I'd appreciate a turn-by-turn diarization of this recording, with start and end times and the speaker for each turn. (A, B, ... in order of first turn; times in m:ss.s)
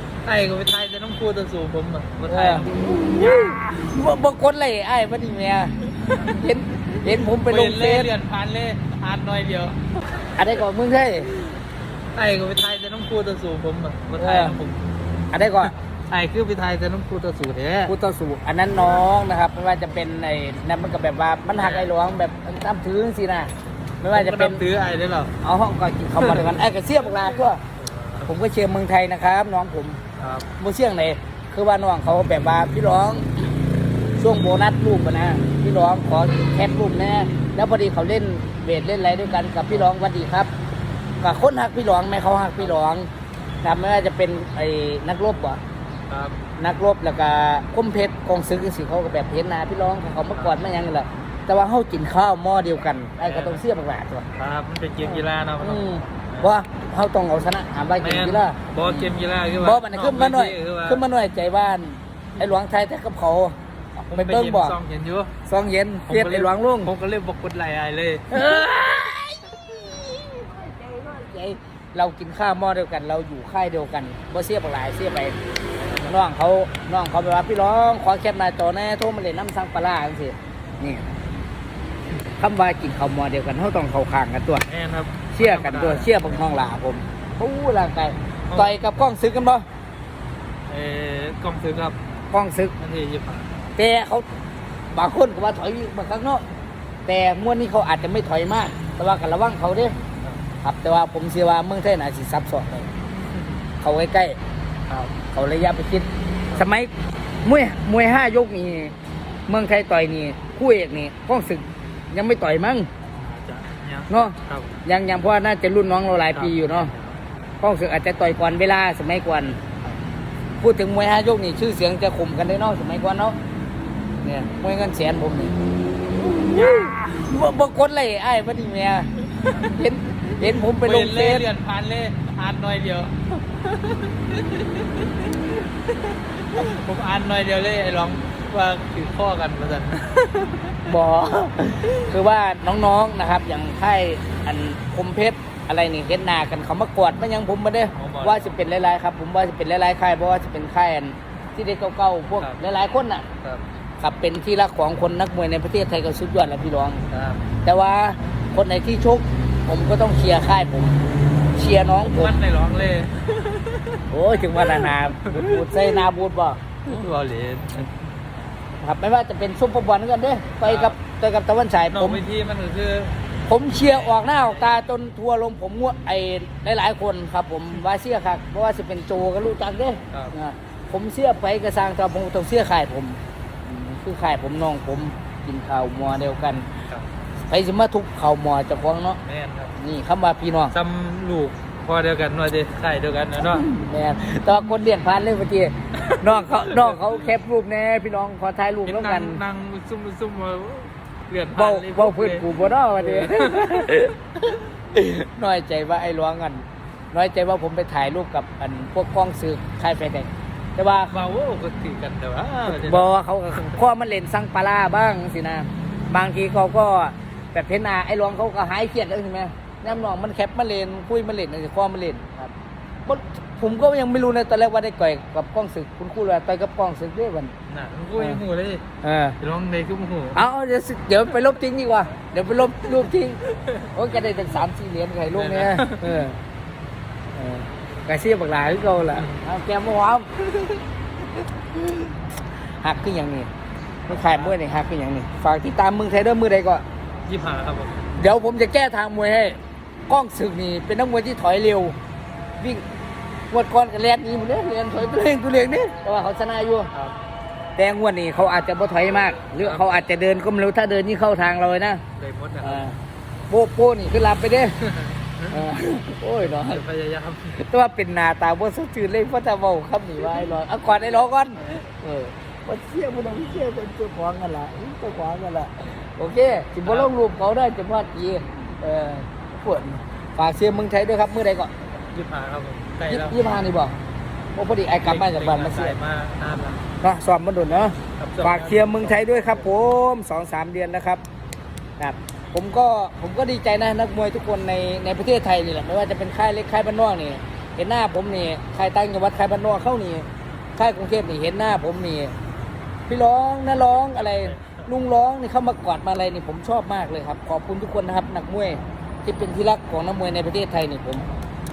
0:00.2-0:03.4 A
0:02.3-0:08.1 B
0:06.0-0:06.4 A
0:07.1-0:09.8 A
0:10.4-0:11.5 B
0:12.1-0:14.8 A
0:14.2-0:14.6 B
0:15.3-0:15.7 B
0:15.6-0:17.9 A
0:17.8-0:23.5 B
0:21.5-0:21.9 A
0:24.0-0:24.6 B
0:24.0-0:25.3 A
0:25.4-0:27.6 B
0:26.2-0:26.5 A
0:27.8-0:28.3 A
0:28.2-0:30.0 B
0:30.2-0:30.5 A
0:30.6-0:33.5 B
0:34.2-0:40.5 B
0:41.2-0:43.1 B
0:42.6-0:42.8 A
0:43.6-0:45.6 B
0:46.1-0:46.4 A
0:46.6-0:54.3 B
0:50.3-0:50.6 A
0:53.2-0:53.6 A
0:54.4-0:56.5 A
0:55.0-1:03.6 B
0:58.0-1:01.0 A
1:04.1-1:05.3 A
1:04.1-1:04.8 B
1:05.4-1:06.9 B
1:06.1-1:08.3 A
1:08.3-1:15.4 B
1:15.8-1:16.2 A
1:16.0-1:21.1 B
1:22.4-1:24.6 B
1:24.6-1:26.4 A
1:25.3-1:29.6 B
1:28.5-1:28.8 A
1:30.7-1:32.0 A
1:32.3-1:32.7 B
1:32.8-1:33.5 A
1:33.8-1:34.2 B
1:34.9-1:36.4 B
1:37.0-1:40.0 B
1:40.6-1:42.9 B
1:43.8-1:44.4 B
1:44.9-1:45.1 A
1:45.3-1:46.9 B
1:47.4-1:48.9 B
1:49.5-1:52.9 B
1:53.1-1:54.8 A
1:54.1-1:56.9 B
1:56.3-1:57.2 A
1:57.6-1:59.6 B
2:00.6-2:03.4 B
2:04.2-2:05.5 B
2:06.2-2:11.4 B
2:06.5-2:06.9 A
2:09.4-2:09.7 A
2:10.4-2:20.9 A
2:20.8-2:33.2 B
2:28.0-2:28.7 A
2:34.0-2:37.0 B
2:37.1-2:37.4 A
2:37.6-2:41.0 B
2:41.5-2:42.3 B
2:42.1-2:44.0 A
2:44.1-2:46.6 B
2:44.6-2:46.0 A
2:46.8-2:48.0 A
2:48.8-2:52.2 B
2:50.6-2:51.0 A
2:51.9-2:53.2 A
2:53.5-3:06.7 B
2:53.8-2:54.8 A
3:07.5-3:09.2 B
3:09.2-3:09.7 A
3:09.8-3:10.7 B
3:10.7-3:13.7 A
3:13.4-3:19.4 B
3:16.0-3:17.0 A
3:18.8-3:24.6 A
3:21.5-3:24.1 B
3:24.9-3:31.2 B
3:31.1-3:33.1 A
3:32.7-3:42.5 B
3:43.0-3:47.5 B
3:47.7-3:48.8 A
3:48.2-3:48.4 B
3:49.0-3:49.4 B
3:49.4-3:50.4 A
3:50.3-3:56.4 B
3:53.5-3:53.9 A
3:55.3-3:56.3 A
3:57.3-4:00.7 B
4:01.7-4:02.1 B
4:02.8-4:03.5 B
4:04.1-4:06.8 B
4:04.3-4:04.6 A
4:07.2-4:08.1 A
4:08.1-4:12.0 B
4:12.6-4:12.8 B
4:13.5-4:16.9 B
4:17.8-4:22.0 B
4:19.6-4:19.9 A
4:22.2-4:22.9 A
4:22.6-4:23.0 B
4:23.5-4:24.8 B
4:24.8-4:25.7 A
4:25.5-4:26.8 B
4:26.4-4:27.6 A
4:27.5-4:41.7 B
4:36.8-4:37.1 A
4:42.1-4:43.4 A
4:43.1-4:44.0 B
4:44.5-4:46.0 B
4:45.0-4:46.8 A
4:47.0-4:51.2 B
4:48.2-4:49.7 A
4:52.0-5:02.3 B
5:03.1-5:11.3 B
5:04.4-5:04.8 A